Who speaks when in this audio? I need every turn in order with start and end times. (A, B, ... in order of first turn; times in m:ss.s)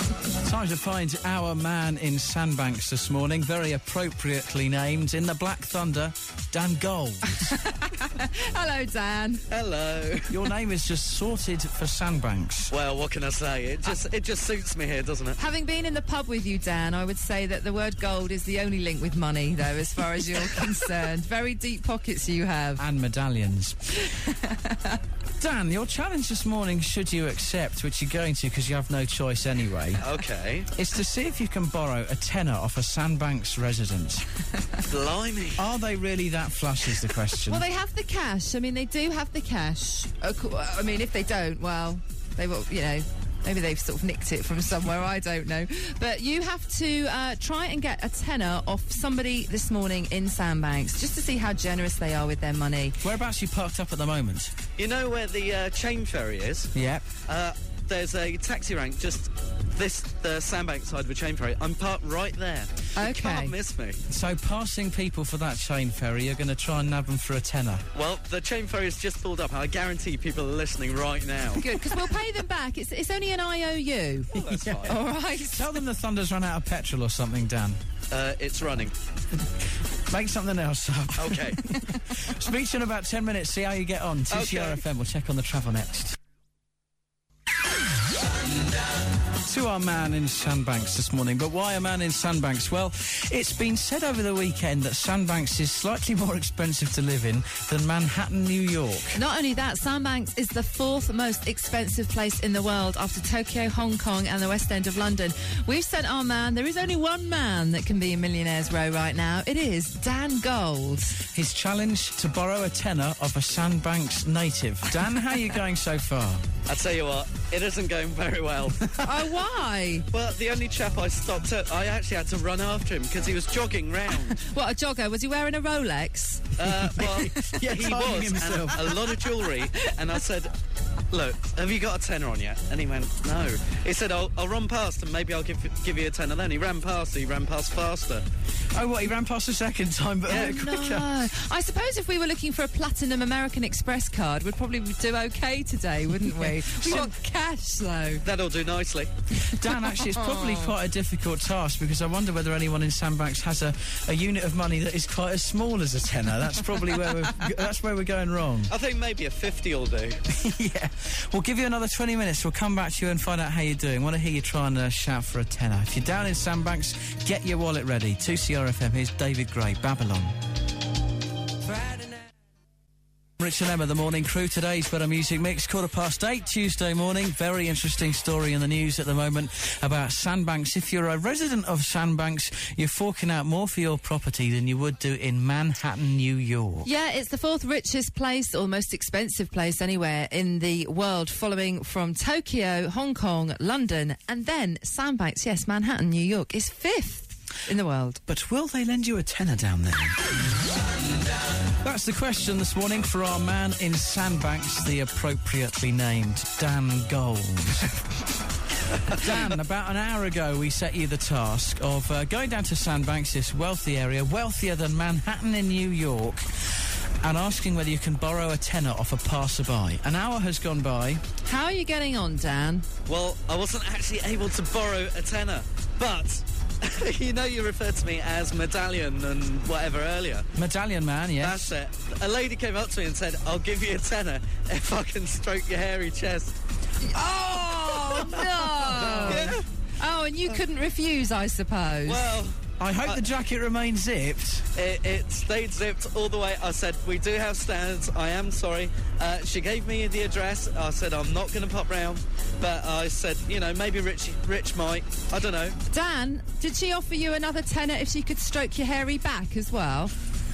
0:00.4-0:07.6 A
0:07.5-0:09.4 B
0:09.5-0:10.4 C
0:10.3-0:12.7 A
0:12.7-0:15.4 C
0:15.4-0:22.8 B
0:22.8-0:24.0 A
0:25.4-0:30.0 A
0:30.0-0:30.7 C
0:30.7-0:34.2 A
0:34.9-0:35.6 C
0:35.6-0:37.6 A
0:37.5-0:53.0 B
0:53.0-0:54.6 A
0:54.8-0:56.7 C
0:56.7-0:57.0 A
0:57.3-1:04.0 C
1:03.0-1:03.6 B
1:04.1-1:07.8 A
1:07.9-1:11.7 C
1:11.6-1:14.3 B
1:14.3-1:15.0 C
1:14.4-1:17.8 A
1:14.8-1:15.7 B
1:18.1-1:18.9 C
1:20.1-1:26.2 A
1:21.2-1:21.6 C
1:24.3-1:24.8 C
1:29.4-1:39.2 A
1:39.2-1:51.2 B
1:51.3-1:56.4 A
1:56.7-1:59.0 C
1:59.0-2:00.1 B
2:00.1-2:04.4 C
2:04.1-2:07.3 B
2:06.6-2:10.5 C
2:07.0-2:09.0 A
2:11.1-2:18.2 C
2:18.7-2:21.2 A
2:20.3-2:20.6 C
2:20.3-2:28.2 B
2:26.6-2:27.1 A
2:28.2-2:29.1 C
2:29.4-2:38.7 A
2:30.1-2:30.7 B
2:38.7-2:40.2 C
2:40.3-2:50.4 A
2:53.4-3:06.9 A
3:06.8-3:18.2 B
3:18.3-3:20.2 A
3:21.8-3:27.9 A
3:29.1-3:41.2 A
3:41.4-3:42.9 B
3:43.1-3:50.5 C
3:50.6-3:51.7 A
3:51.4-3:56.6 C
3:57.0-4:02.4 B
3:57.9-3:59.6 C
3:59.0-3:59.6 A
4:02.1-4:03.3 C
4:02.8-4:04.7 A
4:04.8-4:15.8 C
4:15.9-4:20.1 B